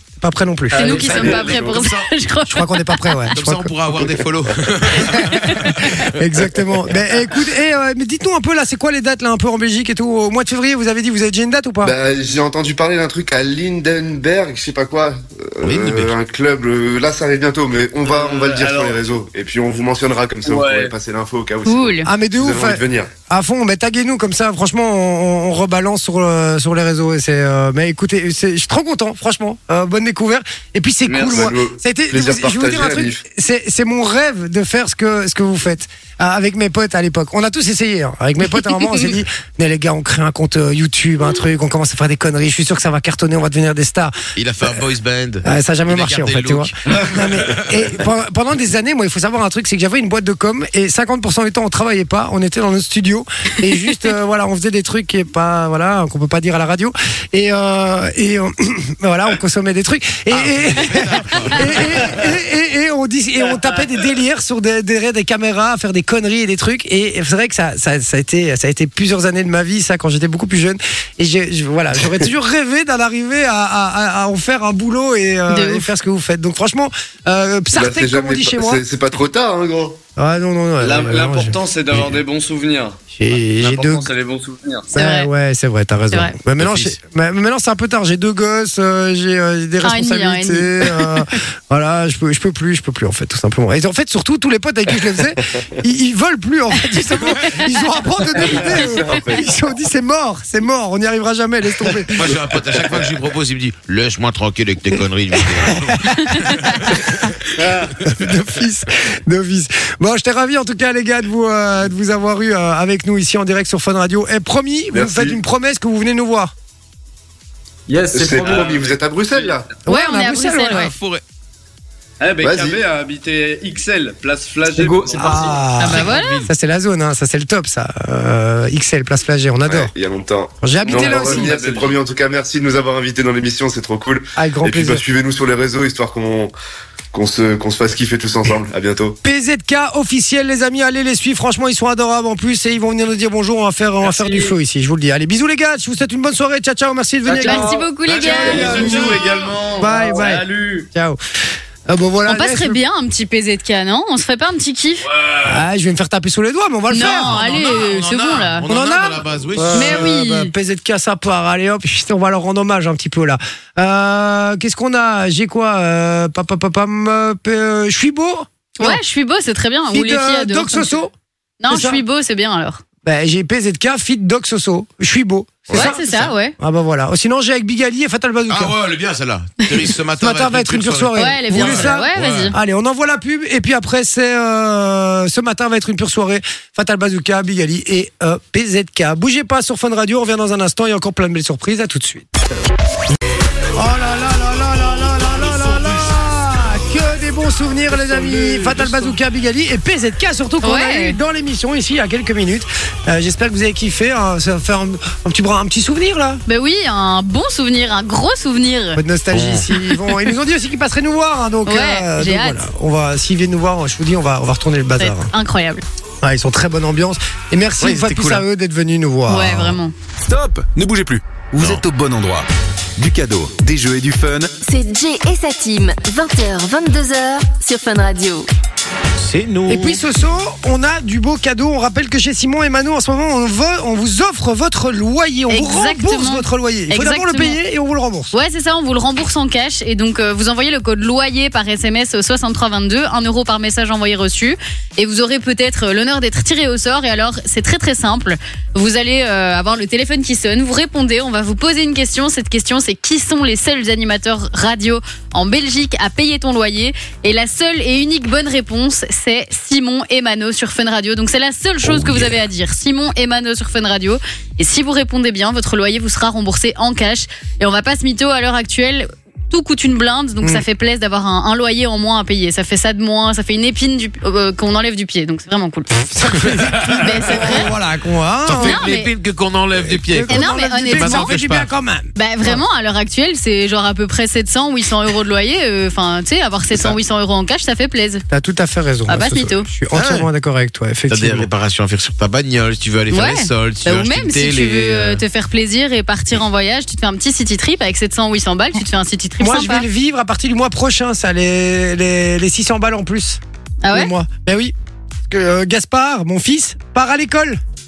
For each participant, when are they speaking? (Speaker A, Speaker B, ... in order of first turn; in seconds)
Speaker A: 0.2-1.1, 2.5-3.7, 4.9-11.9, 22.0-44.1, 45.4-78.8, 80.2-81.6, 83.1-84.1, 84.9-102.3, 105.5-107.3, 108.0-116.5, 119.8-120.9, 125.1-129.9, 130.6-131.6, 134.3-135.0, 139.2-149.2, 149.8-151.2, 151.9-152.8, 155.4-157.4, 158.7-169.0, 169.9-171.1, 171.7-172.0, 173.0-176.0, 176.6-178.8, 180.2-192.3, 193.7-206.4, 208.9-215.3, 216.2-219.8, 229.7-238.3, 276.0-278.9, 279.8-282.6, 288.3-291.5, 299.4-303.4, 303.9-304.7, 305.3-307.6
Speaker B: 0.7-1.7, 18.0-19.0, 20.4-20.9, 31.1-31.5, 80.8-83.0, 83.5-84.9, 118.2-119.6, 122.2-125.6, 130.8-132.0, 147.3-150.9
Speaker C: 0.7-3.3, 21.6-22.1, 75.5-75.9, 84.9-85.3, 89.8-91.2, 119.9-120.9, 125.8-126.5, 147.4-148.9, 152.3-155.1, 156.9-158.7, 159.7-160.5, 168.8-171.0, 171.6-172.8, 175.7-176.5, 181.2-182.6, 200.6-201.2, 206.5-209.0, 211.7-212.6, 215.0-215.8, 219.3-219.9, 235.5-237.6, 238.3-275.9, 277.0-277.7, 278.6-279.1, 280.3-281.3, 282.1-288.2, 289.1-289.7, 293.1-299.9, 303.8-304.1
Speaker D: 0.8-1.5, 117.9-118.8, 124.7-125.6, 144.0-144.5, 147.4-147.7
Speaker E: 1.3-2.1, 3.3-6.1, 15.6-16.1, 44.4-48.0, 60.3-62.4, 86.6-87.0, 102.1-107.5, 120.7-121.2, 125.9-126.5, 148.0-149.6, 155.2-155.6, 157.0-160.2, 175.7-176.3, 178.5-182.5, 198.2-198.8, 209.3-209.7, 217.8-218.4, 221.6-221.8, 229.2-230.0, 261.8-262.3, 276.5-277.7, 278.4-281.7, 289.9-290.3, 291.1-295.2
Speaker F: 11.8-23.1, 31.2-33.2, 77.7-80.0, 98.4-99.6, 114.9-115.4, 118.1-119.7, 122.4-122.8, 129.7-136.5, 137.1-139.2
Speaker G: 220.3-224.5
Speaker H: 224.6-228.5